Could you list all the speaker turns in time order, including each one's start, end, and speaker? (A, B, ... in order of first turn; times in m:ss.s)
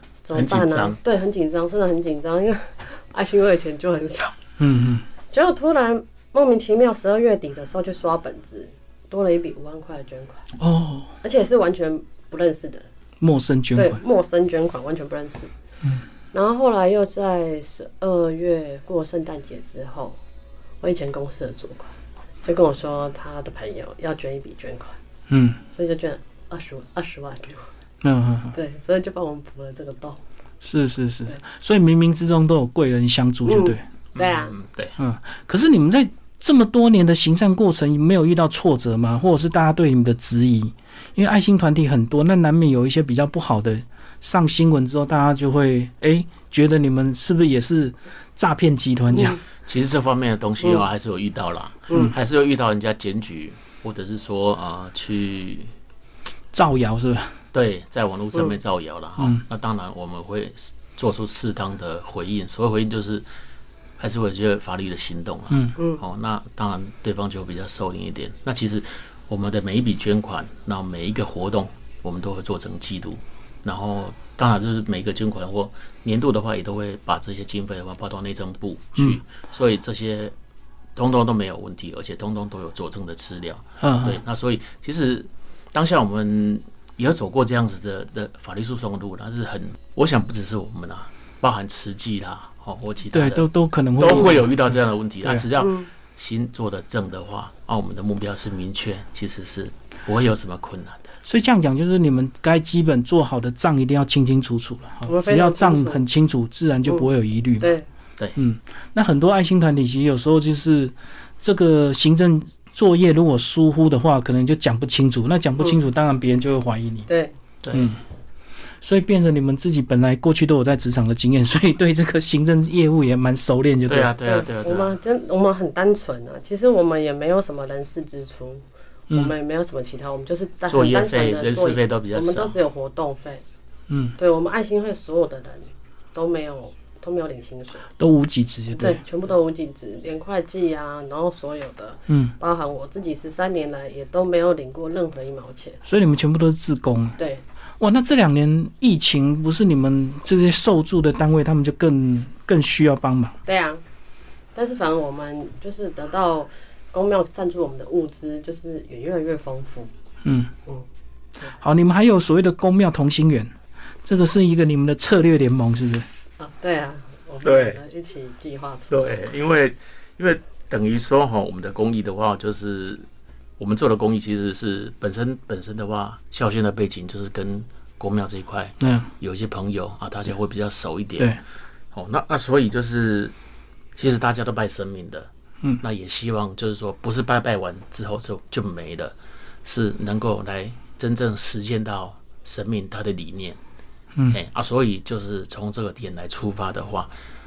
0:00.2-0:04.4 A
0:00.3-0:01.0 B
0:04.6-0:05.0 C
0:05.3-0:10.4 A
0:10.6-0:11.1 C
0:11.2-0:12.9 A
0:13.2-0:14.0 C
0:13.7-0:15.5 A
0:16.3-0:20.2 A
0:20.8-0:25.0 A
0:25.3-0:25.6 C
0:25.7-0:27.7 A
0:28.0-0:28.6 C
0:28.5-0:30.2 A
0:30.6-0:33.8 C
0:33.4-0:34.5 A
0:34.1-0:34.9 B
0:35.0-0:49.4 C
0:49.6-0:55.7 B
0:56.5-0:57.4 C
0:57.5-1:03.2 B
1:04.0-1:20.3 B
1:05.5-1:05.8 C
1:05.8-1:06.0 A
1:21.0-1:33.5 B
1:23.8-1:24.2 C
1:33.1-1:34.5 C
1:34.0-1:41.1 B
1:35.6-1:35.9 A
1:41.2-1:47.7 C
1:45.0-1:46.0 A
1:47.6-1:47.8 A
1:48.4-1:57.1 C
1:57.1-1:57.3 A
1:57.6-1:57.9 B
1:57.7-1:58.0 C
1:58.8-2:04.1 C
2:03.9-2:05.0 B
2:04.2-2:13.4 A
2:10.7-2:12.6 B
2:13.9-2:14.2 C
2:14.2-2:17.9 A
2:18.0-2:19.0 C
2:18.8-2:25.8 A
2:22.1-2:22.3 C
2:25.8-2:27.2 C
2:27.2-2:27.4 A
2:27.8-2:33.4 C
2:33.4-2:33.8 A
2:34.5-2:39.9 A
2:40.2-2:40.5 C
2:41.5-2:43.5 C
2:44.0-2:46.1 C
2:46.4-2:49.2 A
2:47.4-2:47.8 B
2:48.9-2:53.0 B
2:53.6-3:01.4 B
2:58.8-2:59.1 C
3:01.9-3:03.3 B
3:03.9-3:05.3 B
3:05.8-3:13.6 B
3:14.3-3:17.1 B